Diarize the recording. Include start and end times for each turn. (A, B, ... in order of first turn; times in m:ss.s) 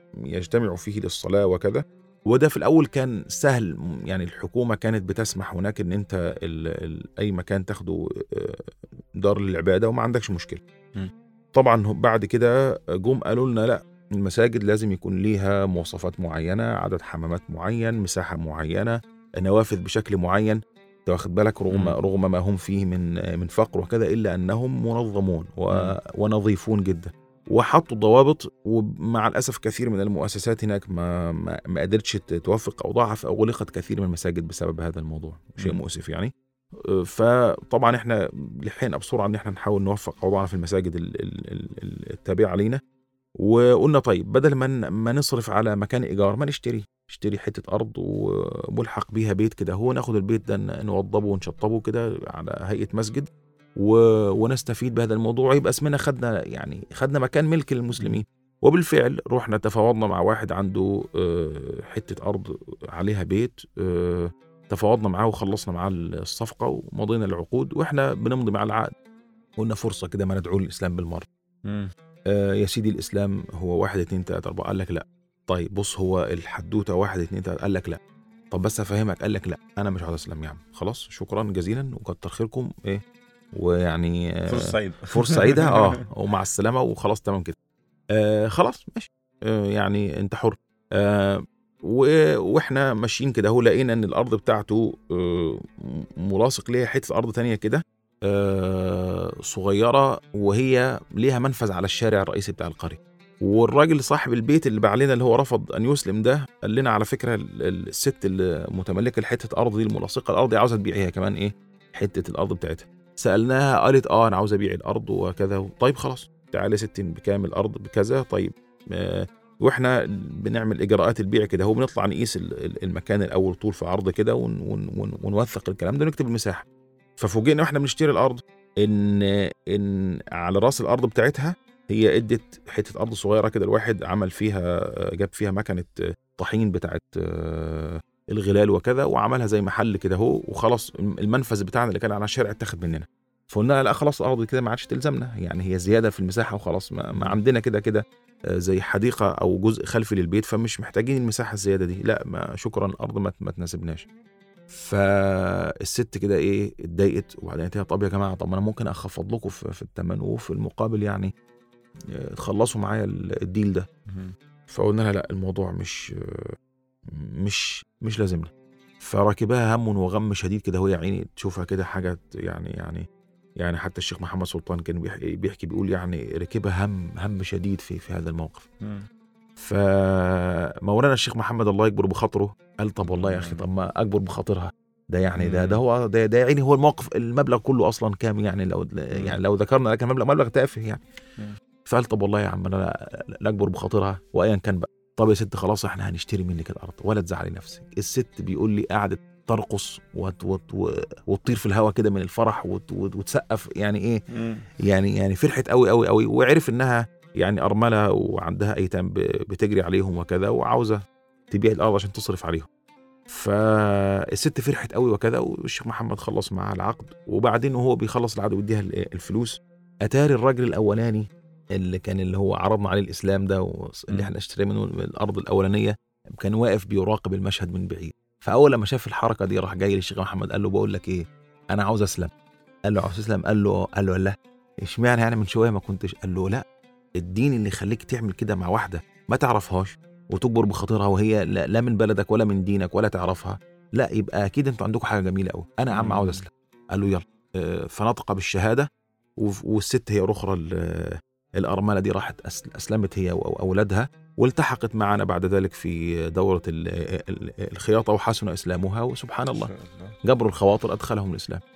0:00.3-0:08.7 A
0:09.2-0:10.6 A
0:11.6-0:36.3 A
0:21.7-0:22.0 B
0:25.7-0:26.0 B
0:37.0-0:42.8 A
0:43.4-1:08.9 A
1:09.6-1:11.3 A
1:11.7-1:11.9 B
1:12.3-1:18.0 A
1:18.5-1:23.0 A
1:23.6-1:27.6 A
1:24.5-1:26.0 B
1:28.1-2:06.6 A
2:07.2-2:34.1 A
2:34.8-2:41.3 A
2:42.2-2:43.9 A
2:44.7-2:46.6 A
2:47.4-2:48.5 A
2:49.0-2:53.0 A
2:53.6-2:58.7 A
2:59.6-3:11.0 A
3:03.1-3:03.6 B
3:05.4-3:05.8 B
3:09.1-3:09.4 B
3:11.9-3:24.2 A
3:24.4-3:24.6 B
3:24.8-3:31.0 A
3:31.5-3:32.7 A
3:33.3-3:52.3 A
3:52.9-3:56.6 A
3:57.2-4:08.9 A
4:05.9-4:06.4 B
4:09.4-4:19.7 A
4:19.5-4:20.1 B
4:20.2-4:21.6 A